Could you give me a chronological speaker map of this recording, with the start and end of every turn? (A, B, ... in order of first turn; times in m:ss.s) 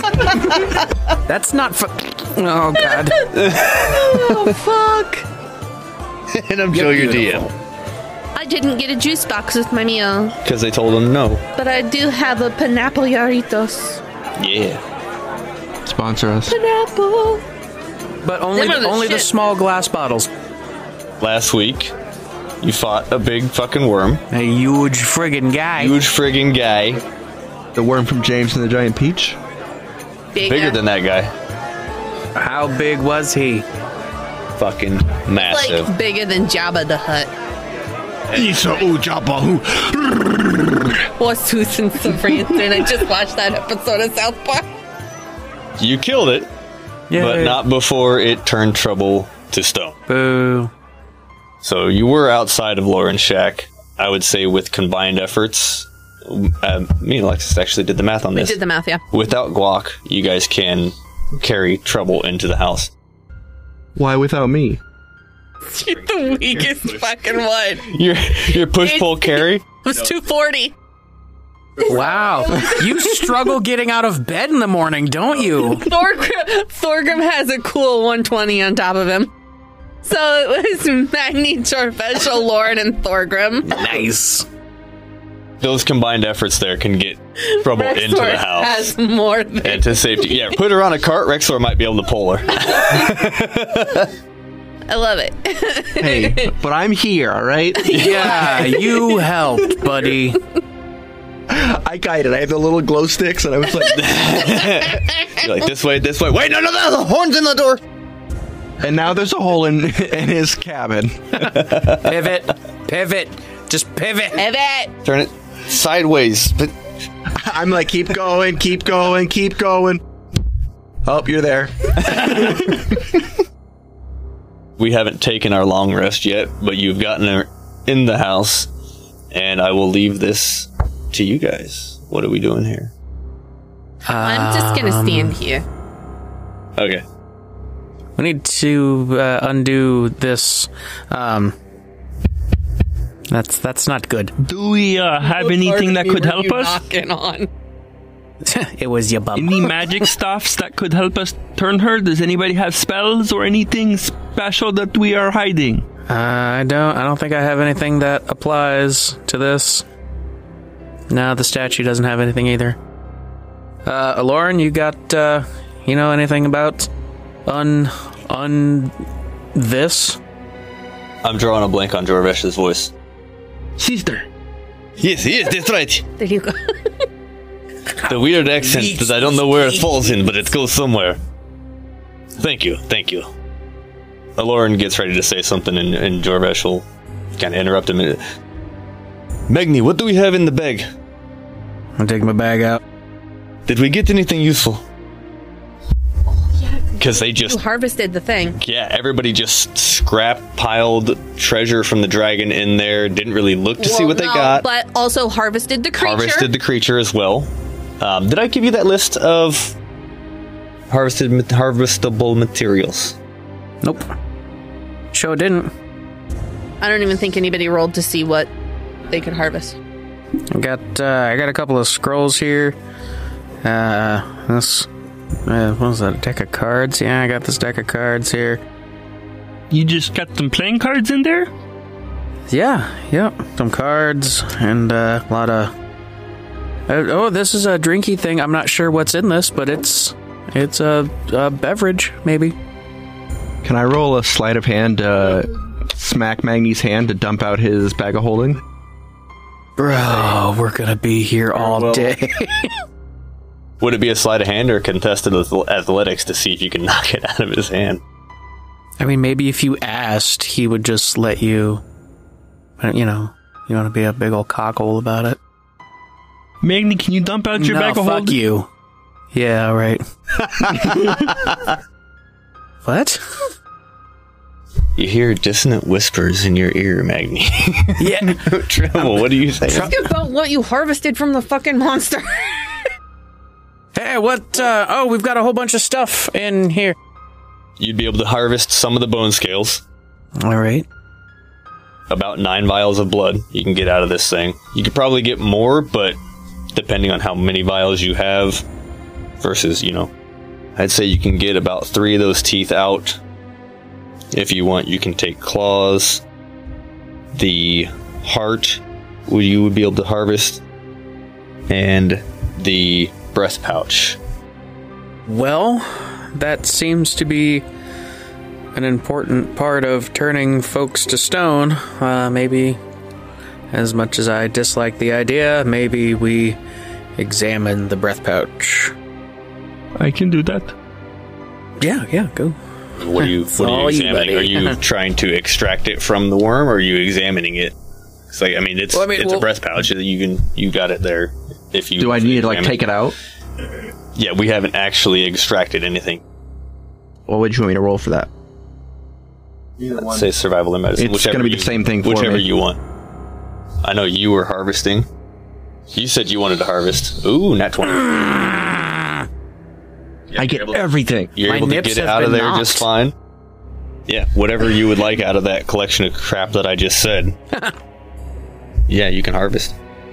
0:01.2-0:03.3 A
0:03.3-0:04.5 B
0:03.6-0:05.2 C
0:06.3-0:07.5 B
0:08.3-0:10.4 C
0:10.4-0:11.4 B
0:11.6-0:14.0 C
0:14.4-0:14.8 B
0:15.8-0:16.6 D
0:16.5-0:17.4 C
0:18.2-0:20.3 A
0:18.5-0:19.3 C
0:21.2-0:21.9 B
0:22.6-0:24.2 B
0:24.3-0:26.0 A
0:25.8-0:27.0 B
0:27.7-0:29.4 D
0:30.3-0:30.8 C
0:30.4-0:31.3 B
0:32.3-0:33.6 A
0:34.6-0:35.9 B
0:35.4-0:37.3 C
0:38.3-0:39.3 B
0:38.4-0:40.8 D
0:41.0-0:44.6 C
0:45.8-0:46.5 B
0:47.1-0:47.6 A
0:47.1-0:50.0 B
0:50.1-0:50.7 A
0:51.6-0:58.6 B
0:58.3-0:59.0 C
0:59.1-1:02.9 B
1:04.0-1:04.8 D
1:05.6-1:07.9 C
1:07.8-1:09.6 B
1:08.5-1:10.7 C
1:11.8-1:15.9 A
1:11.8-1:13.1 C
1:15.5-1:19.3 C
1:20.0-1:23.8 C
1:23.6-1:24.4 A
1:25.6-1:29.0 B
1:27.4-1:30.6 C
1:29.6-1:34.1 B
1:32.7-1:33.0 C
1:34.9-1:36.5 C
1:36.0-1:38.5 D
1:37.8-1:39.2 C
1:37.9-1:40.4 A
1:41.5-1:44.4 D
1:43.9-1:47.8 B
1:48.8-1:51.6 D
1:51.7-1:52.0 B
1:51.9-1:54.4 A
1:54.4-1:54.9 C
1:55.0-1:56.7 B
1:57.3-2:00.0 D
2:01.0-2:03.2 D
2:04.8-2:08.7 B
2:09.3-2:12.9 B
2:14.0-2:15.4 A
2:14.1-2:15.6 C
2:16.8-2:17.0 B
2:18.2-2:21.5 A
2:23.3-2:24.3 A
2:24.4-2:26.8 E
2:25.3-2:27.5 C
2:28.4-2:30.1 A
2:29.3-2:35.8 E
2:36.1-2:39.8 A
2:41.1-2:42.8 A
2:43.8-2:46.9 A
2:47.4-2:48.9 A
2:49.5-2:50.2 A
2:51.2-2:52.9 B
2:53.8-2:54.2 D
2:55.0-2:56.1 B
2:56.2-2:57.0 C
2:58.0-3:01.2 B
2:58.6-2:59.8 A
3:02.4-3:03.3 B
3:04.4-3:08.2 B
3:09.5-3:10.9 B
3:12.0-3:12.8 A
3:13.7-3:14.8 B
3:16.6-3:18.6 C
3:17.0-3:17.6 B
3:18.6-3:24.6 B
3:23.8-3:26.5 C
3:26.0-3:29.7 B
3:30.9-3:33.2 B
3:33.8-3:34.1 A
3:35.1-3:35.7 A
3:36.8-3:38.5 C
3:39.1-3:39.8 C
3:40.5-3:42.8 A
3:43.6-3:44.9 A
3:45.4-3:48.6 A
3:49.7-3:51.5 E
3:52.5-3:55.7 A
3:56.9-4:02.6 A
4:03.6-4:08.6 D
4:09.8-4:12.8 A
4:11.5-4:12.1 D
4:13.8-4:18.0 B
4:19.0-4:21.8 A
4:22.8-4:25.4 A
4:26.6-4:28.4 E
4:27.6-4:28.7 A
4:29.3-4:31.2 A
4:32.8-4:33.2 A
4:35.0-4:39.9 B
4:38.0-4:39.9 A
4:39.7-4:42.8 C
4:43.9-4:47.0 A
4:47.8-4:49.8 B
4:50.4-4:50.8 A
4:52.1-4:56.2 B
4:56.7-4:58.6 B
4:59.4-5:00.1 B
5:00.8-5:03.2 B
5:04.3-5:06.2 B
5:07.3-5:10.6 B
5:11.7-5:14.2 B
5:15.3-5:17.6 A
5:18.7-5:22.8 A
5:23.7-5:26.6 A
5:27.2-5:28.9 A
5:30.0-5:30.7 E
5:31.8-5:32.6 A
5:33.0-5:37.8 B
5:33.2-5:34.8 A
5:38.3-5:42.9 B
5:38.9-5:39.5 A
5:42.0-5:43.2 D
5:44.1-5:46.2 B
5:47.3-5:48.3 D
5:49.8-5:50.2 D
5:49.9-5:52.8 B
5:51.0-5:52.5 D
5:53.8-5:55.1 B
5:55.9-5:58.7 B
6:00.3-6:00.8 B
6:00.3-6:01.3 D
6:01.3-6:03.1 B
6:01.4-6:02.9 A
6:04.1-6:07.4 B
6:08.9-6:09.8 B